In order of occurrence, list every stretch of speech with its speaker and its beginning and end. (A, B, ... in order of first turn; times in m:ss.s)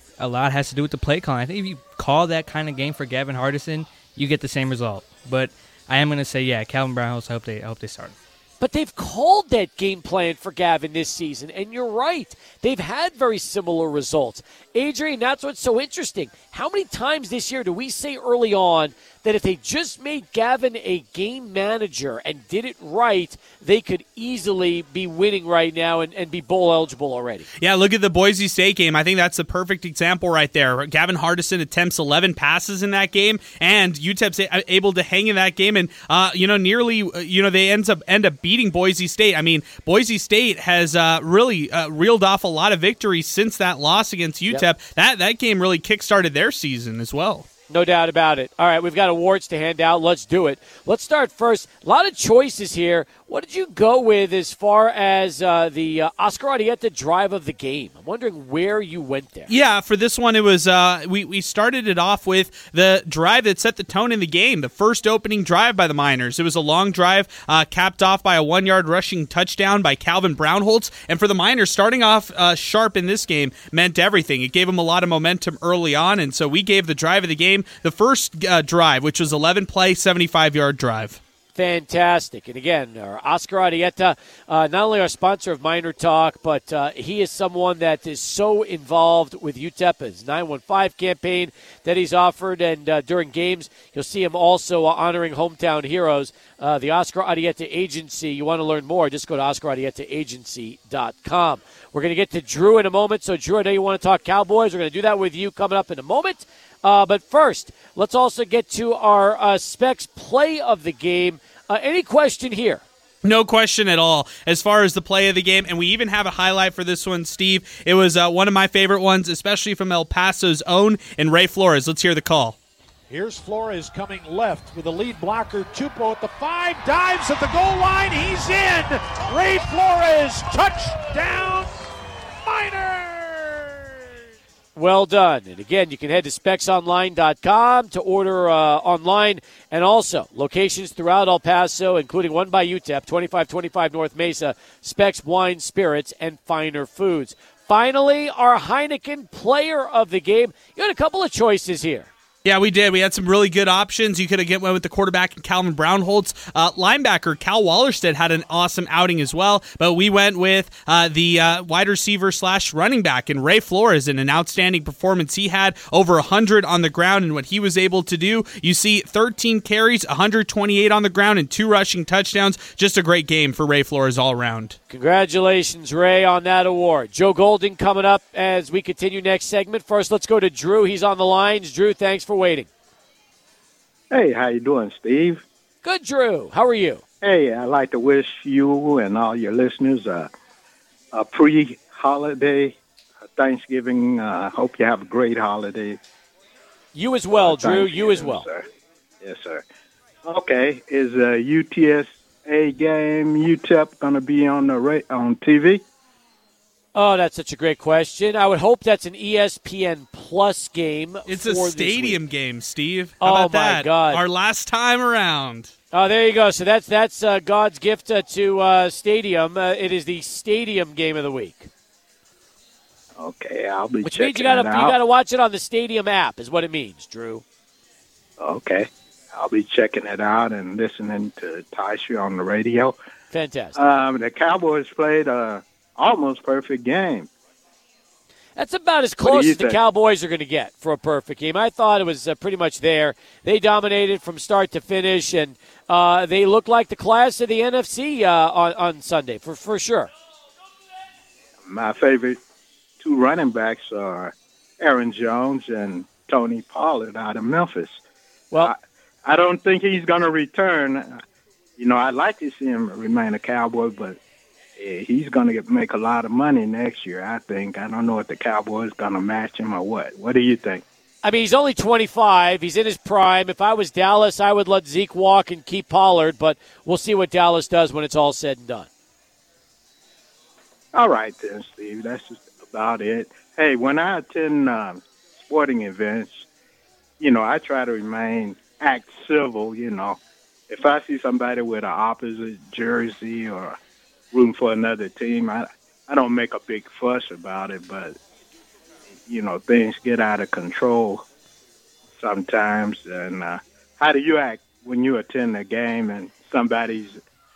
0:00.2-0:08.1 A
0:08.6-0:27.5 B
0:27.6-0:47.5 C
0:47.7-0:59.5 B
0:59.5-1:21.2 C
1:21.5-1:52.8 B
1:53.2-2:02.6 C
2:03.1-2:07.2 D
2:08.1-2:08.8 D
2:11.0-2:11.5 D
2:14.7-2:32.1 B
2:32.4-2:54.8 C
2:54.9-3:02.7 B
3:04.1-3:05.4 E
3:05.8-3:07.0 B
3:07.2-3:10.3 E
3:11.1-3:12.8 E
3:13.3-3:16.0 E
3:16.9-3:18.5 B
3:17.3-3:18.6 E
3:19.2-3:19.6 E
3:20.2-3:25.8 E
3:26.9-3:32.2 B
3:31.3-3:35.7 C
3:33.2-3:34.2 B
3:35.9-3:41.7 B
3:43.2-3:45.0 E
3:44.0-3:47.4 B
3:48.4-3:53.0 E
3:53.3-3:53.8 B
3:53.8-3:57.3 E
3:58.6-4:10.1 B
3:59.2-3:59.8 E
4:11.6-4:12.4 E
4:13.0-4:18.0 E
4:18.6-4:21.2 E
4:21.8-4:24.2 E
4:24.8-4:30.8 E
4:31.2-4:38.9 B
4:40.9-4:46.5 E
4:47.2-4:53.8 E
4:54.3-4:58.2 E
4:59.2-5:01.2 E
5:02.2-5:07.2 E